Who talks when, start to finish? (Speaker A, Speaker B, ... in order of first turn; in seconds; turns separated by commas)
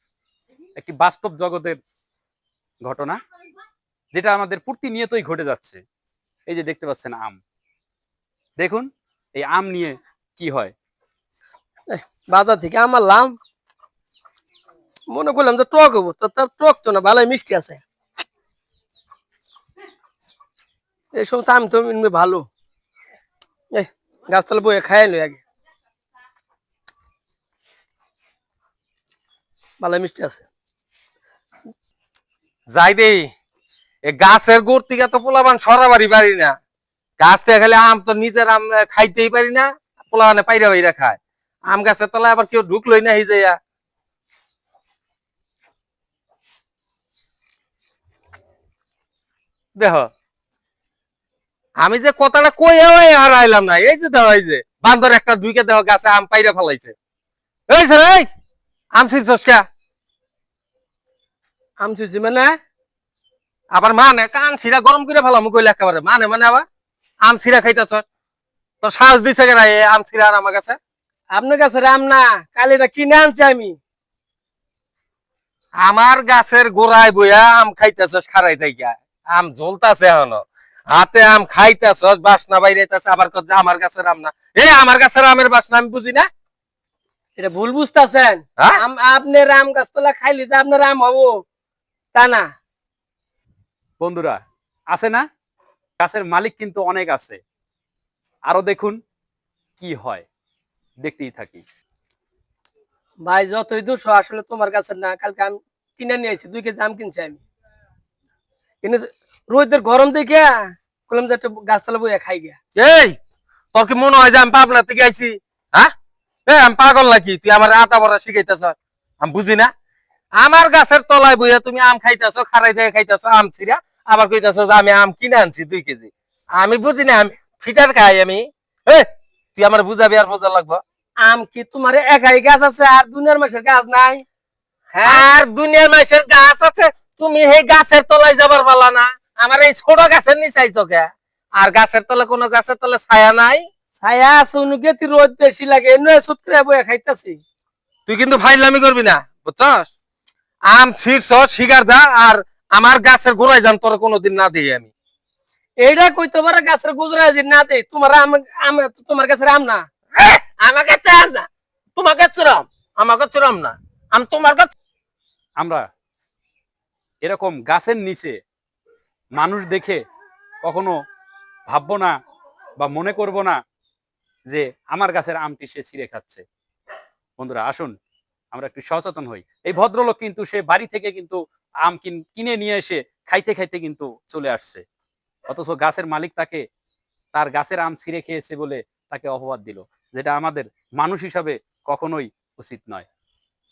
Speaker A: 0.8-1.8, Speaker A: 2.8-3.2, Speaker A: 4.1-5.8, Speaker A: 6.5-7.4, Speaker A: 8.6-10.7, Speaker B: 11.9-13.4, Speaker B: 15.1-17.8, Speaker B: 21.1-22.4, Speaker B: 23.7-25.4, Speaker B: 29.8-30.4, Speaker C: 32.7-33.3, Speaker C: 34.0-36.5, Speaker C: 37.2-43.6, Speaker C: 49.8-50.1, Speaker C: 51.8-56.9, Speaker C: 57.7-58.3, Speaker C: 58.9-59.7, Speaker B: 61.8-62.5, Speaker C: 63.7-66.7, Speaker C: 67.2-68.0, Speaker C: 68.8-70.8, Speaker B: 71.3-73.8, Speaker C: 75.8-86.3, Speaker B: 87.4-91.4, Speaker B: 92.1-92.5, Speaker A: 94.0-94.4, Speaker A: 94.9-95.2, Speaker A: 96.0-97.4, Speaker A: 98.5-99.0, Speaker A: 99.8-100.2, Speaker A: 101.0-101.6, Speaker B: 103.2-107.4, Speaker B: 108.8-112.6, Speaker C: 112.8-113.2, Speaker C: 113.7-115.9, Speaker C: 116.5-119.7, Speaker C: 120.4-130.8, Speaker B: 131.2-134.2, Speaker B: 134.9-135.2, Speaker C: 135.1-143.7, Speaker B: 144.0-147.4, Speaker C: 148.1-149.9, Speaker C: 150.7-154.9, Speaker B: 155.8-159.8, Speaker C: 160.2-164.7, Speaker A: 165.6-165.8, Speaker A: 167.2-168.4, Speaker A: 169.3-170.0, Speaker A: 170.6-170.9, Speaker A: 171.7-172.1, Speaker A: 172.8-173.6, Speaker A: 174.5-176.4, Speaker A: 177.4-177.9, Speaker A: 178.5-184.8, Speaker A: 185.5-186.6, Speaker A: 187.3-193.1